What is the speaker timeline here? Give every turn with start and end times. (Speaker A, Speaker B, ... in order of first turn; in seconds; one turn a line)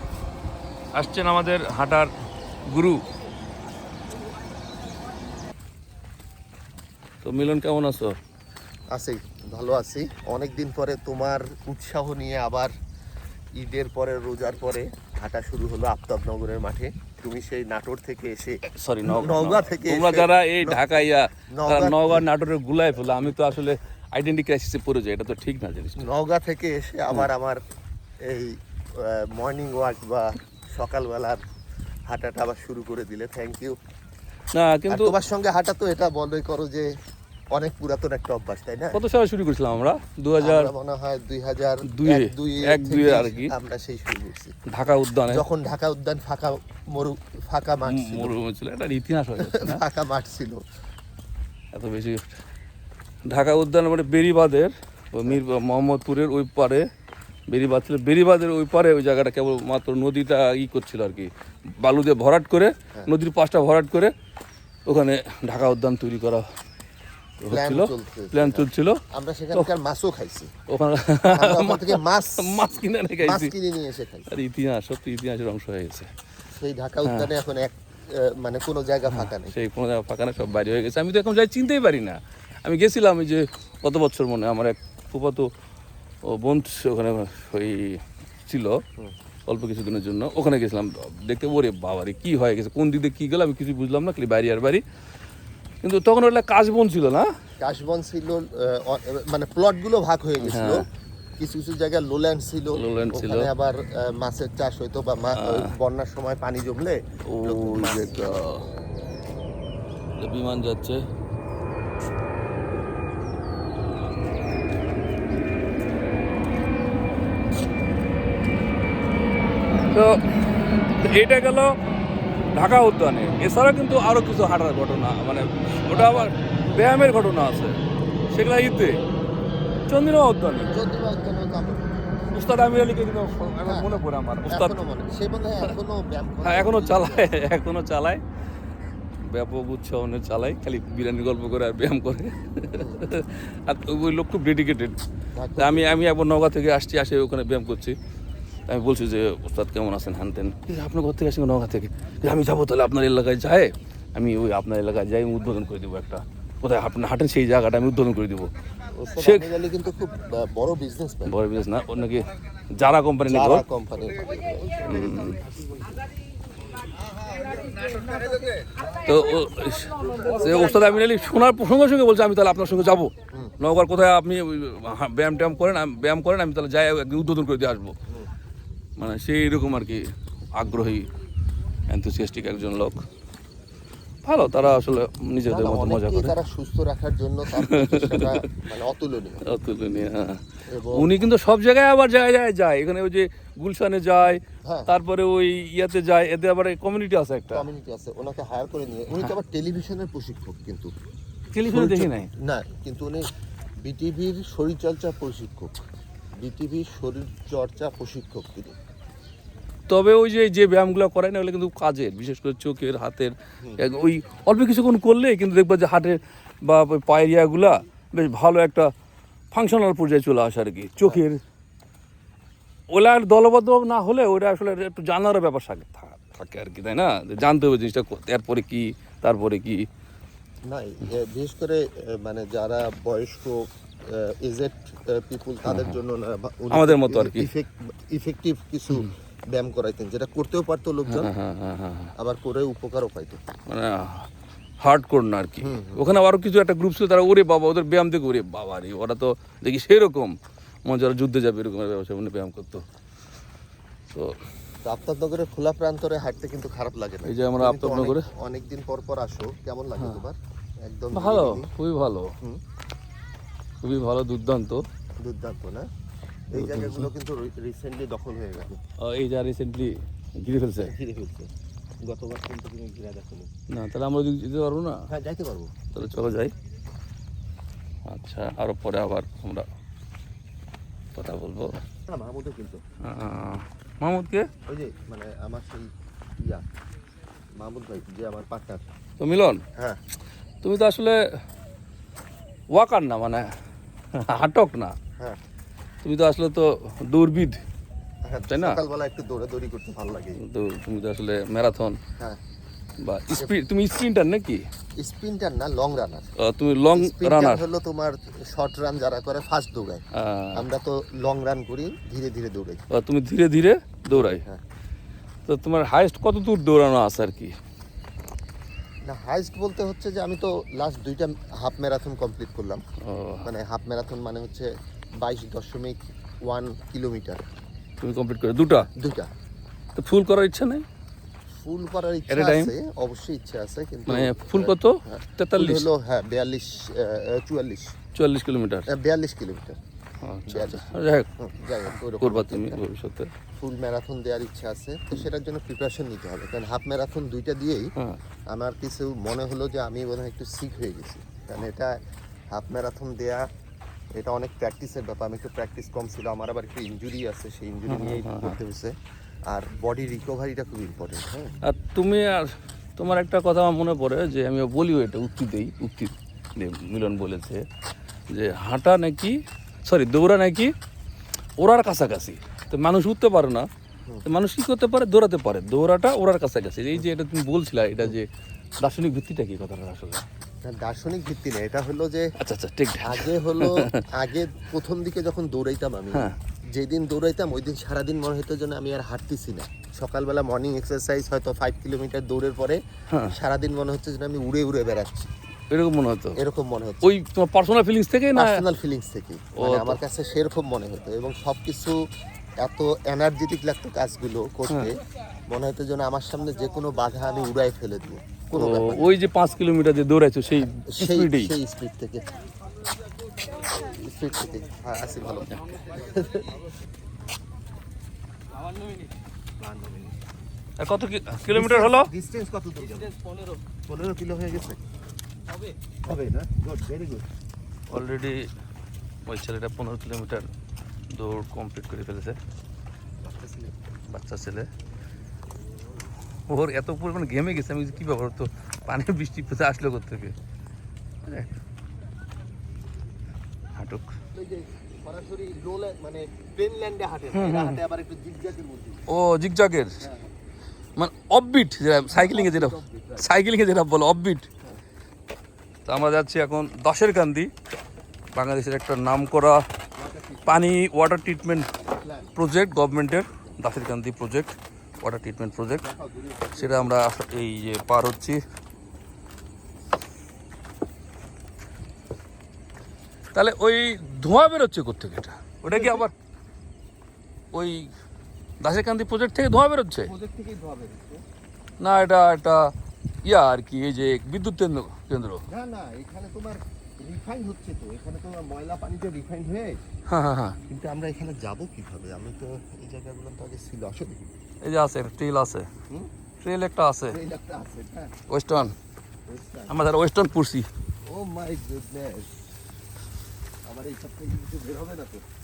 Speaker A: 0.9-2.1
Speaker A: 2.7-3.0
Speaker A: 7.2-8.1
Speaker B: 8.9-12.7
Speaker B: 13.6-22.2
Speaker A: 18.7-26.1
Speaker B: 26.0-27.6
Speaker B: 28.2-31.4
Speaker B: 32.1-33.8
Speaker A: 34.5-35.2
Speaker B: 34.9-36.9
Speaker B: 37.5-39.0
Speaker A: 38.9-40.7
Speaker B: 40.4-44.5
Speaker A: 41.9-43.5
Speaker A: 44.7-45.4
Speaker B: 45.2-48.3
Speaker A: 47.9-49.8
Speaker B: 49.4-50.6
Speaker A: 51.7-52.2
Speaker A: 53.3-56.9
Speaker A: 57.5-64.1
Speaker A: 64.9-66.4
Speaker A: 67.4-69.0
Speaker B: 67.5-70.5
Speaker A: 70.7-73.5
Speaker B: 71.3-74.3
Speaker A: 74.3-76.1
Speaker B: 76.5-79.5
Speaker A: 77.0-77.3
Speaker A: 79.1-85.5
Speaker A: 86.3-88.8
Speaker A: 89.5-94.8
Speaker A: 95.8-97.3
Speaker B: 97.6-100.8
Speaker A: 100.4-100.8
Speaker B: 101.4-108.6
Speaker A: 102.7-103.5
Speaker A: 105.3-105.7
Speaker A: 107.3-108.7
Speaker A: 110.2-111.0
Speaker A: 119.9-120.4
Speaker A: 121.0-121.7
Speaker A: 122.5-127.8
Speaker B: 125.9-126.3
Speaker A: 128.3-129.0
Speaker A: 129.9-130.7
Speaker B: 130.7-132.2
Speaker A: 132.3-134.8
Speaker B: 133.6-137.3
Speaker A: 136.4-138.2
Speaker A: 139.2-145.0
Speaker B: 142.8-143.0
Speaker B: 145.3-146.1
Speaker A: 145.6-147.9
Speaker A: 148.7-158.5
Speaker B: 158.9-161.3
Speaker A: 159.2-159.5
Speaker A: 161.3-163.6
Speaker B: 163.3-165.9
Speaker A: 164.8-165.4
Speaker B: 167.9-168.3
Speaker A: 169.0-177.9
Speaker A: 179.0-181.1
Speaker A: 181.9-183.0
Speaker A: 184.2-186.3
Speaker B: 184.4-189.4
Speaker A: 187.5-188.6
Speaker A: 189.4-197.7
Speaker B: 190.7-191.3
Speaker B: 194.6-194.9
Speaker B: 197.5-200.9
Speaker A: 201.5-202.3
Speaker B: 201.7-203.3
Speaker B: 203.8-205.8
Speaker B: 206.4-208.8
Speaker A: 209.9-218.9
Speaker A: 219.5-221.4
Speaker A: 222.9-229.8
Speaker B: 230.7-241.3
Speaker A: 235.7-236.0
Speaker A: 236.7-237.5
Speaker A: 241.1-242.1
Speaker B: 242.2-243.4
Speaker A: 243.7-244.3
Speaker A: 244.8-252.8
Speaker B: 245.6-246.0
Speaker A: 254.1-254.3
Speaker B: 254.8-261.7
Speaker A: 257.2-258.3
Speaker A: 260.0-260.2
Speaker A: 261.1-262.3
Speaker A: 263.8-264.8
Speaker B: 265.2-265.9
Speaker B: 266.5-268.8
Speaker A: 266.6-267.1
Speaker A: 269.0-270.9
Speaker B: 270.8-271.5
Speaker B: 272.0-273.5
Speaker A: 273.7-275.1
Speaker B: 275.1-275.7
Speaker A: 275.9-276.5
Speaker A: 278.1-279.7
Speaker A: 281.1-281.8
Speaker B: 282.1-282.8
Speaker A: 283.0-284.5
Speaker B: 284.7-286.6
Speaker B: 287.6-288.8
Speaker A: 289.2-289.6
Speaker A: 290.6-291.2
Speaker A: 292.7-293.5
Speaker A: 294.1-294.9
Speaker A: 296.0-297.6
Speaker B: 298.3-300.4
Speaker A: 298.5-298.8
Speaker A: 300.4-302.0
Speaker A: 303.0-304.7
Speaker B: 305.0-306.3
Speaker A: 306.4-307.7
Speaker B: 306.9-312.8
Speaker A: 310.1-310.6
Speaker A: 312.9-314.4
Speaker B: 314.1-314.6
Speaker A: 315.5-317.5
Speaker B: 319.1-322.8
Speaker A: 323.0-323.5
Speaker B: 323.4-324.7
Speaker B: 325.2-327.4
Speaker A: 328.0-328.9
Speaker B: 328.7-329.3
Speaker A: 329.9-330.8
Speaker B: 331.6-337.9
Speaker A: 332.3-332.7
Speaker A: 334.1-335.9
Speaker A: 338.1-338.9
Speaker B: 338.9-339.8
Speaker A: 340.2-341.3
Speaker B: 340.5-342.8
Speaker A: 341.9-343.3
Speaker B: 343.6-347.9
Speaker B: 348.5-351.9
Speaker B: 352.5-353.5
Speaker B: 354.1-358.9
Speaker A: 357.9-358.6
Speaker B: 359.5-361.6
Speaker A: 361.6-367.6
Speaker A: 368.3-370.7
Speaker A: 371.6-373.6
Speaker A: 374.2-378.3
Speaker A: 378.8-380.2
Speaker B: 380.6-382.3
Speaker A: 382.4-384.0
Speaker B: 383.0-395.3
Speaker A: 395.7-396.4
Speaker B: 396.4-397.1
Speaker A: 397.0-398.6
Speaker B: 398.3-401.9
Speaker A: 399.6-400.0
Speaker B: 402.6-409.2
Speaker A: 408.6-411.5
Speaker B: 410.9-412.3
Speaker B: 413.6-416.6
Speaker B: 419.6-420.1
Speaker A: 420.8-422.1
Speaker B: 421.5-423.2
Speaker B: 423.9-424.8
Speaker B: 426.0-427.3
Speaker A: 427.9-428.5
Speaker A: 429.3-430.5
Speaker A: 431.1-432.4
Speaker B: 433.2-433.8
Speaker A: 434.1-434.7
Speaker A: 436.5-440.3
Speaker A: 443.8-444.1
Speaker B: 444.3-449.0
Speaker A: 447.3-447.8
Speaker A: 449.1-450.0
Speaker B: 450.0-450.3
Speaker A: 451.0-454.5
Speaker B: 452.1-453.3
Speaker A: 455.9-457.5
Speaker A: 458.3-459.6
Speaker B: 459.9-460.7
Speaker A: 460.4-461.7
Speaker B: 461.9-462.3
Speaker A: 462.3-465.8
Speaker B: 465.8-467.0
Speaker A: 466.6-468.4
Speaker A: 473.3-476.1
Speaker B: 475.6-476.1
Speaker A: 477.5-477.9
Speaker A: 478.6-480.1
Speaker B: 480.0-481.2
Speaker A: 481.8-482.7
Speaker A: 483.2-485.4
Speaker B: 485.5-489.8
Speaker A: 490.1-490.6
Speaker B: 490.7-494.3
Speaker A: 494.6-495.7
Speaker A: 496.4-497.2
Speaker B: 497.1-498.1
Speaker A: 498.3-498.8
Speaker B: 499.3-499.8
Speaker A: 499.7-500.7
Speaker B: 501.0-502.5
Speaker B: 503.6-505.2